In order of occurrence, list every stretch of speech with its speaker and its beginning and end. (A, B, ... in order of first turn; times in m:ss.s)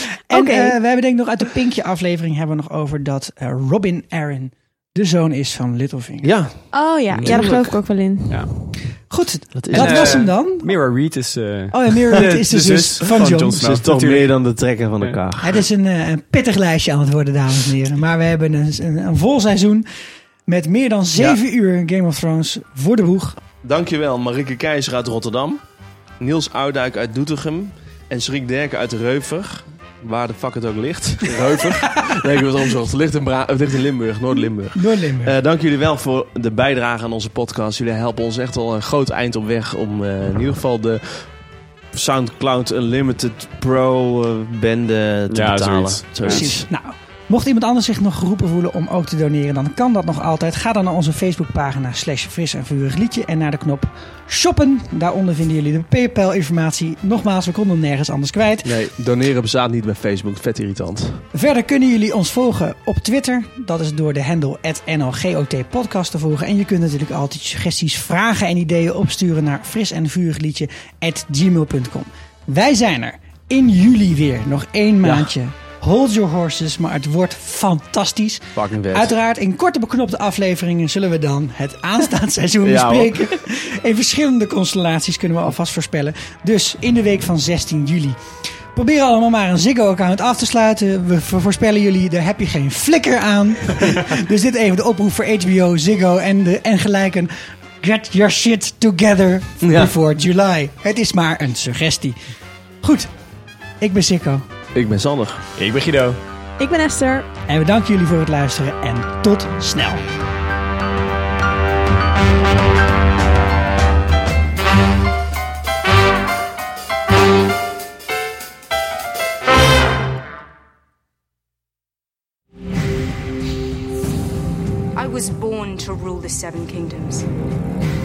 0:00.3-0:06.3 A
0:00.3-0:00.8 B
0:06.2-0:07.8 C
0:06.7-0:08.5 B
0:07.2-0:07.6 D
0:09.1-0:10.7 A
0:09.5-0:10.3 C
0:09.7-0:14.2 D
0:11.7-0:13.6 A
0:13.4-0:15.6 C
0:15.4-0:19.8 A
0:20.5-0:23.4 A
0:23.6-0:25.6 C
0:26.2-0:41.3 C
0:34.7-0:35.3 A
0:41.9-0:46.7 C
0:45.3-0:46.6 D
0:46.2-0:58.8 A
0:58.6-1:01.2 C
1:01.3-1:28.2 A
1:15.0-1:15.3 C
1:18.5-1:19.1 C
1:22.6-1:23.3 C
1:28.7-1:42.2 A
1:39.6-1:39.9 C
1:42.8-1:43.1 A
1:43.8-1:44.4 A
1:44.7-1:45.4 C
1:45.6-1:46.2 D
1:46.6-1:47.3 B
1:47.5-1:50.0 A
2:05.0-2:07.2 E